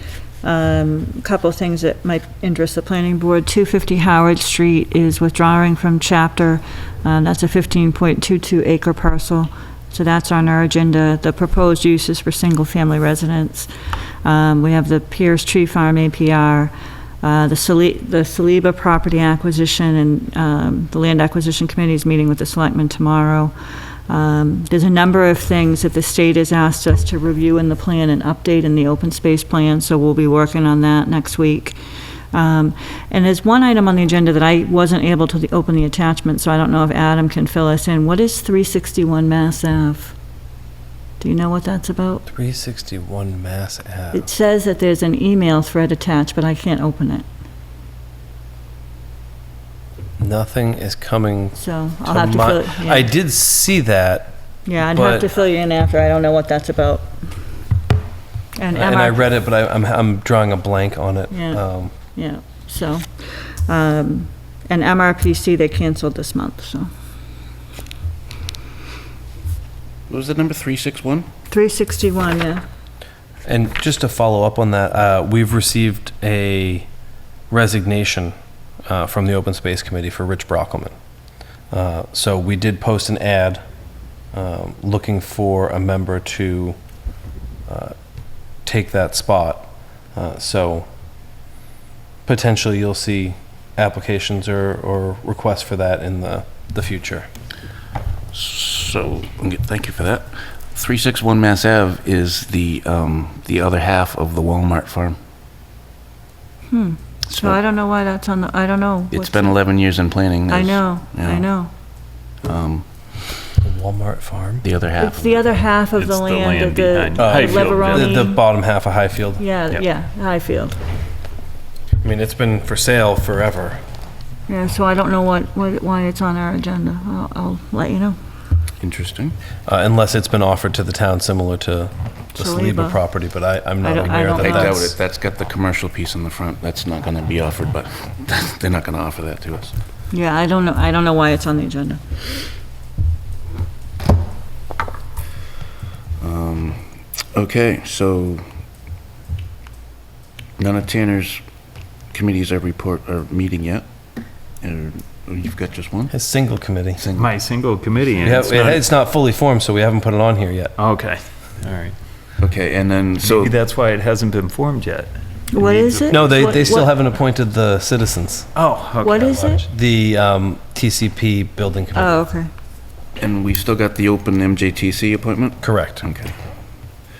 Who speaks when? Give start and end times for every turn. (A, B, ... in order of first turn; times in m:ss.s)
0:00.4-0:31.8 A
0:32.3-0:40.1 A
0:41.2-0:42.2 A
0:42.3-0:44.3 B
0:44.1-0:47.2 A
0:50.2-0:55.3 B
0:51.6-0:53.1 A
0:54.7-0:57.1 A
0:58.6-0:59.2 A
0:58.7-1:01.9 B
1:01.3-1:01.6 A
1:02.1-1:06.9 A
1:10.1-1:11.3 C
1:11.5-1:12.6 A
1:13.4-1:16.9 B
1:17.5-1:18.3 B
1:18.9-1:20.9 B
1:21.7-1:23.6 B
1:24.3-1:26.8 B
1:27.7-1:27.9 B
1:28.6-1:30.9 B
1:32.2-1:37.3 B
1:38.3-1:45.2 C
1:46.7-1:49.6 A
1:47.3-1:47.6 C
1:49.1-1:51.5 C
1:50.5-1:51.7 A
1:52.4-1:52.8 C
1:53.6-1:54.7 B
1:54.6-1:55.4 C
1:55.0-1:58.4 A
1:56.0-1:58.1 D
1:57.2-1:59.4 B
1:59.4-2:00.8 A
2:02.0-2:03.8 B
2:04.5-2:08.2 A
2:08.8-2:09.3 C
2:09.7-2:14.9 B
2:12.4-2:13.0 A
2:13.8-2:14.9 A
2:14.4-2:19.7 C
2:20.1-2:22.2 A
2:26.2-2:28.4 C
2:30.6-2:31.4 C
2:32.1-2:33.8 C
2:34.6-2:36.1 C
2:36.1-2:37.1 B
2:37.0-2:37.3 C
2:37.2-2:38.8 D
2:38.2-2:40.7 B
2:40.8-2:42.0 D
2:42.4-2:43.5 C
2:43.2-2:46.6 D
2:45.5-2:46.9 A
2:46.1-2:48.5 B
2:48.5-2:49.7 D
2:49.0-2:49.6 A
2:49.7-2:52.2 B
2:51.9-2:52.5 A
2:53.2-2:56.3 C
2:55.6-2:56.0 B